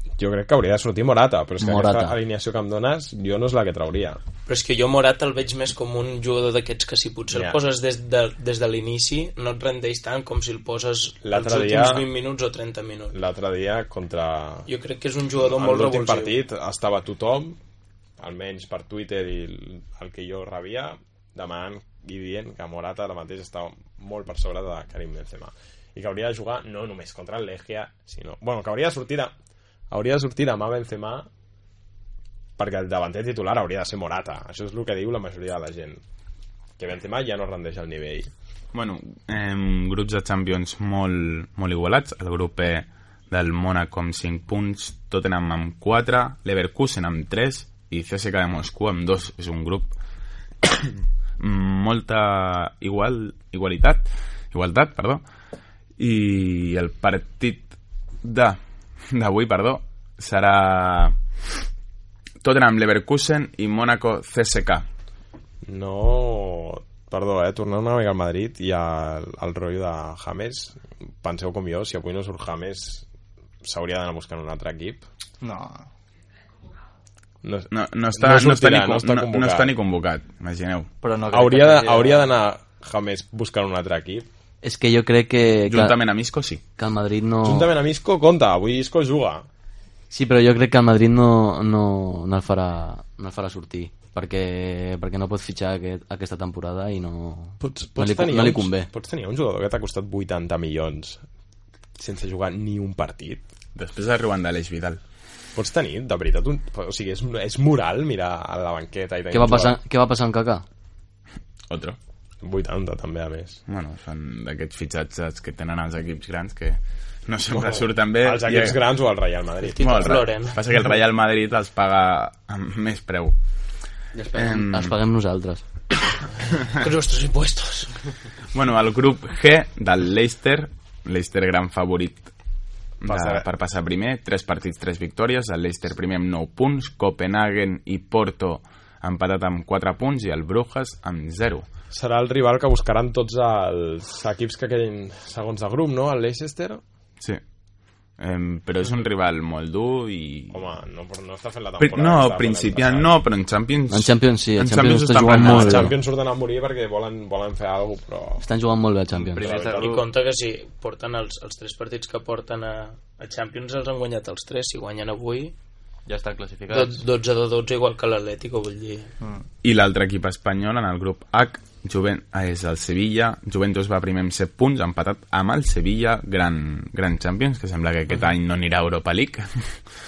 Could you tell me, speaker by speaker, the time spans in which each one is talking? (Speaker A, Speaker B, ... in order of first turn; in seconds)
Speaker A: 0.2-4.2, 7.3-7.6, 11.2-12.1, 13.1-14.7, 15.4-17.6, 18.2-29.3, 29.9-31.3, 32.6-36.0, 36.8-38.3, 65.7-73.1, 73.6-75.0, 77.4-79.7, 81.3-84.3, 87.4-89.5, 97.6-101.2, 102.0-103.4, 105.5-109.8, 112.4-113.6, 117.5-120.2, 133.1-133.5, 141.9-146.8, 150.5-153.1, 155.4-158.4, 159.4-160.0
Speaker B: 1.6-2.2, 84.6-86.0, 86.8-87.7, 90.1-98.9, 109.3-110.7, 124.1-125.6, 153.9-155.9, 158.4-159.4
Speaker C: 4.5-13.2, 14.7-16.4, 119.7-120.6, 126.8-127.9, 159.7-165.6, 166.7-169.1
Speaker D: 38.7-49.9, 50.6-55.2, 56.0-57.7, 58.2-58.6, 59.1-61.2, 62.4-64.9, 77.7-80.9, 85.7-86.6, 103.8-105.0, 111.7-112.0, 113.7-118.8, 119.8-123.3, 124.3-125.0, 128.5-132.3, 133.0-141.7, 148.2-150.6, 151.8-155.9, 169.6-179.7
Speaker E: 75.4-75.9, 81.0-82.3, 159.2-160.1, 166.1-167.0